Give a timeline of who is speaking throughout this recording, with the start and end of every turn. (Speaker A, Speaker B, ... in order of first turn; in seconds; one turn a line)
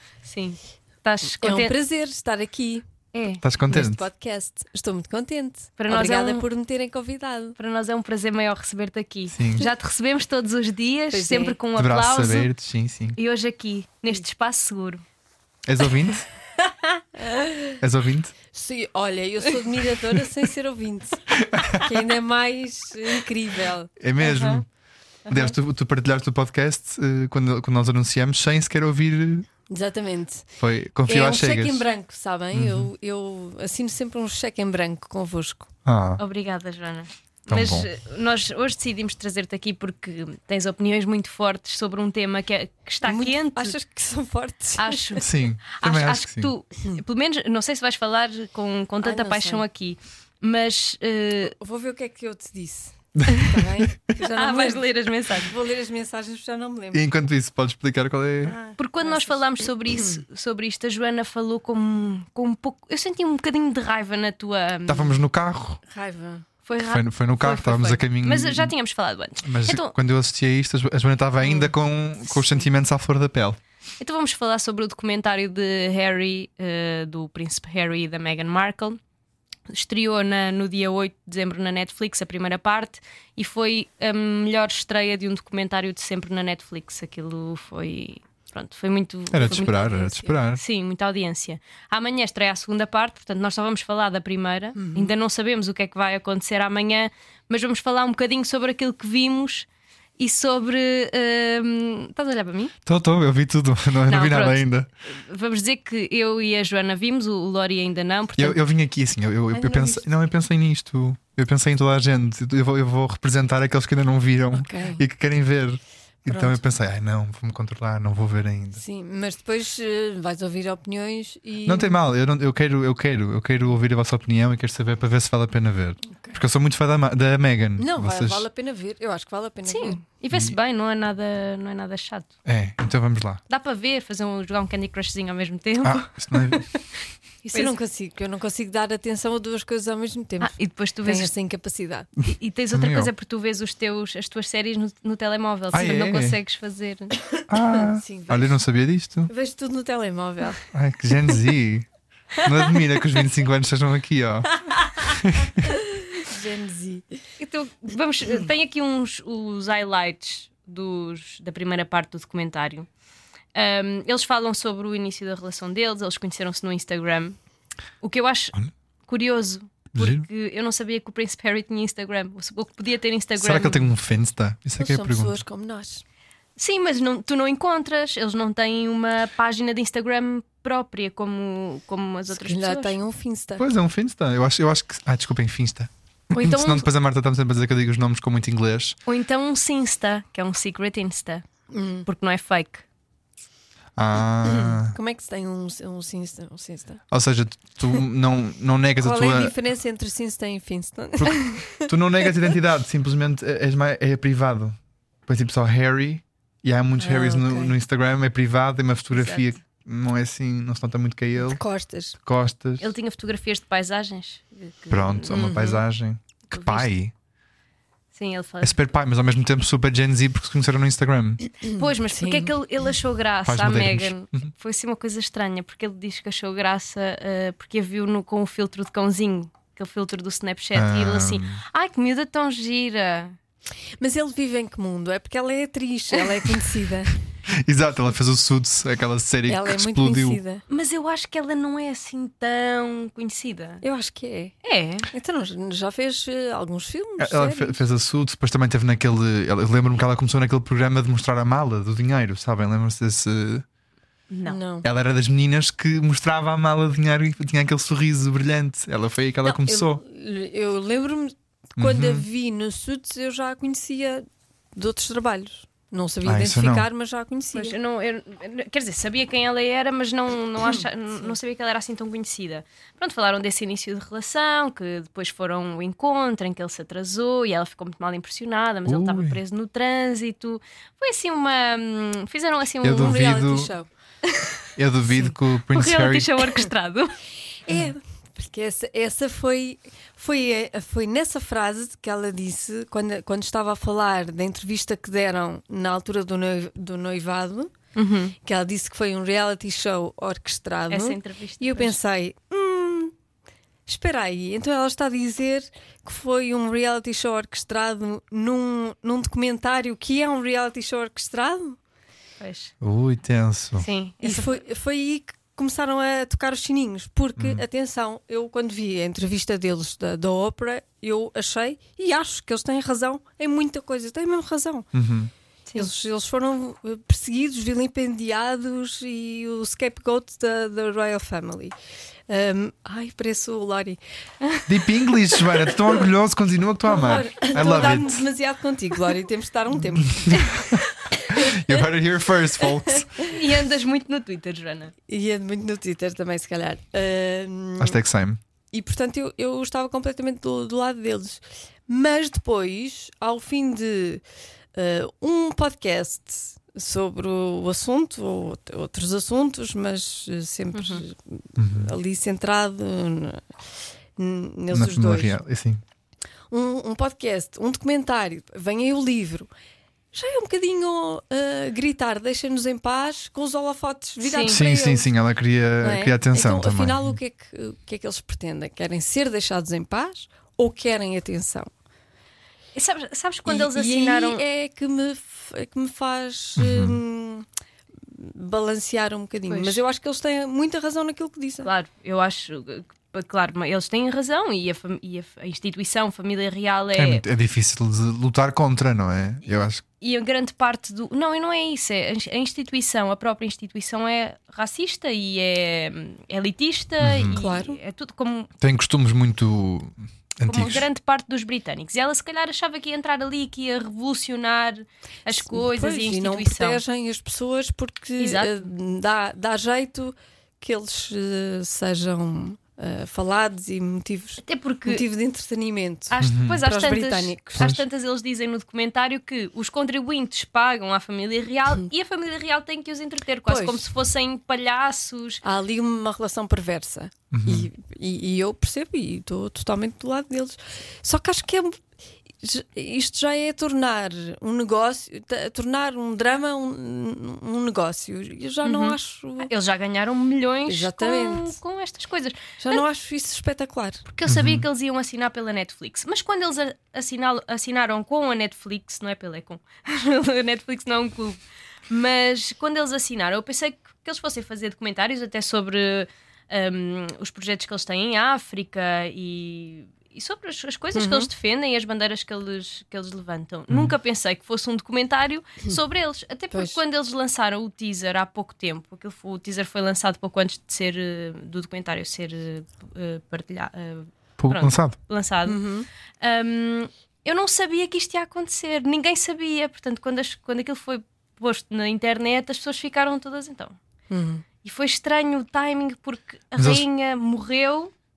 Speaker A: 0.2-1.7
Speaker B: 1.4-2.8
Speaker A: 3.1-3.4
Speaker C: 3.4-4.0
Speaker B: 3.7-7.6
Speaker A: 5.8-6.4
Speaker A: 7.5-12.5
Speaker C: 9.3-9.7
Speaker B: 11.1-11.6
Speaker C: 11.7-13.2
Speaker A: 13.1-15.0
Speaker C: 15.7-16.3
Speaker B: 16.9-17.8
Speaker C: 17.8-18.3
Speaker B: 18.5-24.6
Speaker C: 21.4-21.9
Speaker C: 24.0-24.7
Speaker C: 25.3-29.5
Speaker B: 29.7-30.5
Speaker C: 30.6-31.8
Speaker B: 31.1-35.7
Speaker C: 32.5-32.9
Speaker C: 35.8-36.2
Speaker A: 36.2-43.7
Speaker C: 37.5-37.9
Speaker B: 43.0-45.2
Speaker A: 44.8-51.5
Speaker C: 45.2-46.5
Speaker B: 49.0-49.6
Speaker B: 51.6-57.0
Speaker A: 54.3-55.5
Speaker C: 56.9-58.6
Speaker B: 58.4-60.2
Speaker A: 58.8-65.2
Speaker C: 64.9-65.8
Speaker B: 65.9-66.5
Speaker A: 66.6-69.9
Speaker C: 66.8-68.7
Speaker C: 69.4-73.6
Speaker A: 74.0-79.0
Speaker A: 79.7-99.7
Speaker C: 89.3-90.6
Speaker B: 94.8-95.1
Speaker A: 100.2-102.7
Speaker C: 102.8-104.9
Speaker A: 104.1-108.6
Speaker C: 108.4-118.8
Speaker B: 109.5-110.0
Speaker B: 114.5-115.0
Speaker B: 116.3-116.6
Speaker B: 118.8-122.0
Speaker C: 121.7-128.4
Speaker B: 127.8-130.0
Speaker A: 129.7-132.3
Speaker C: 132.4-133.4
Speaker A: 133.5-136.6
Speaker C: 135.8-136.7
Speaker B: 137.4-142.1
Speaker A: 140.4-141.3
Speaker A: 142.2-147.2
Speaker C: 142.7-143.1
Speaker C: 145.7-146.3
Speaker C: 147.5-149.3
Speaker B: 147.7-148.6
Speaker B: 149.3-150.6
Speaker C: 150.7-155.7
Speaker B: 156.1-157.1
Speaker A: 157.4-162.9
Speaker A: 163.5-167.3
Speaker A: 168.0-173.9
Speaker C: 169.9-170.2
Speaker C: 173.4-175.4
Speaker B: 174.8-176.0
Speaker A: 176.6-183.0
Speaker B: 182.3-183.7
Speaker C: 183.6-189.0
Speaker A: 186.3-186.8
Speaker A: 189.1-191.4
Speaker B: 191.7-192.1
Speaker A: 192.1-192.8
Speaker C: 194.0-195.0
Speaker B: 194.4-197.0
Speaker C: 197.1-199.5
Speaker B: 199.0-202.5
Speaker C: 201.2-211.6
Speaker B: 207.0-207.8
Speaker A: 209.1-209.5
Speaker B: 211.4-212.2
Speaker C: 212.2-212.8
Speaker A: 212.8-215.6
Speaker C: 214.9-217.1
Speaker B: 215.3-215.8
Speaker A: 216.5-216.9
Speaker A: 218.1-218.8
Speaker C: 218.6-221.4
Speaker A: 221.8-233.3
Speaker B: 222.1-222.5
Speaker C: 223.5-224.5
Speaker C: 230.7-231.6
Speaker B: 234.0-237.2
Speaker C: 237.5-240.4
Speaker B: 239.5-240.6
Speaker A: 240.7-243.8
Speaker B: 243.8-244.5
Speaker A: 244.6-245.1
Speaker B: 245.1-247.8
Speaker C: 247.2-253.7
Speaker A: 254.3-254.6
Speaker B: 254.5-254.9
Speaker C: 254.8-260.0
Speaker B: 259.5-267.8
Speaker C: 261.8-262.2
Speaker C: 266.2-266.9
Speaker A: 267.5-283.5
Speaker B: 270.6-271.3
Speaker C: 278.9-279.4
Speaker C: 282.8-283.7
Speaker B: 282.9-283.9
Speaker C: 284.8-286.3
Speaker A: 285.7-287.1
Speaker B: 287.7-297.7
Speaker A: 298.0-298.4
Speaker B: 298.4-303.1
Speaker A: 300.9-302.0
Speaker B: 303.9-311.8
Speaker A: 312.4-312.7
Speaker C: 312.8-313.9
Speaker A: 313.8-314.6
Speaker B: 314.2-324.9
Speaker C: 317.4-317.6
Speaker C: 324.9-325.3
Speaker B: 325.8-331.7
Speaker B: 332.3-334.0
Speaker C: 334.7-338.2
Speaker B: 335.4-335.9
Speaker B: 336.9-340.6
Speaker C: 340.1-340.8
Speaker B: 341.1-341.8
Speaker C: 341.3-343.1
Speaker B: 342.6-343.3
Speaker A: 343.2-344.9
Speaker B: 345.1-348.0
Speaker C: 347.8-348.4
Speaker B: 348.7-354.2
Speaker B: 354.8-363.4
Speaker A: 360.7-361.0
Speaker C: 361.6-361.9
Speaker B: 364.2-365.4
Speaker C: 364.7-365.8
Speaker B: 366.5-369.5
Speaker B: 370.1-375.1
Speaker A: 374.2-374.6
Speaker C: 374.5-377.1
Speaker B: 375.8-381.7
Speaker A: 382.8-384.4
Speaker B: 383.5-387.5
Speaker C: 386.6-387.0
Speaker B: 388.1-391.7
Speaker A: 389.5-389.8
Speaker A: 391.6-397.2
Speaker C: 397.0-399.8
Speaker A: 400.0-408.5
Speaker C: 407.0-407.4
Speaker B: 407.3-407.8
Speaker C: 408.6-410.9
Speaker A: 410.4-416.8
Speaker B: 415.3-427.7
Speaker A: 418.2-418.7
Speaker A: 424.4-425.0
Speaker A: 426.1-435.4
Speaker C: 426.2-426.6
Speaker C: 427.6-427.8
Speaker B: 433.5-433.9
Speaker B: 435.4-441.8
Speaker C: 437.3-437.7
Speaker B: 442.4-449.5
Speaker A: 448.6-452.8
Speaker B: 450.7-451.6
Speaker B: 452.6-454.0
Speaker A: 454.1-485.6
Speaker C: 454.3-454.6
Speaker B: 470.9-471.3
Speaker B: 476.5-476.8
Speaker C: 484.4-485.0
Speaker B: 485.5-485.9
Speaker A: 486.2-493.8
Speaker B: 494.1-494.4
Speaker A: 494.6-497.9
Speaker C: 496.6-496.8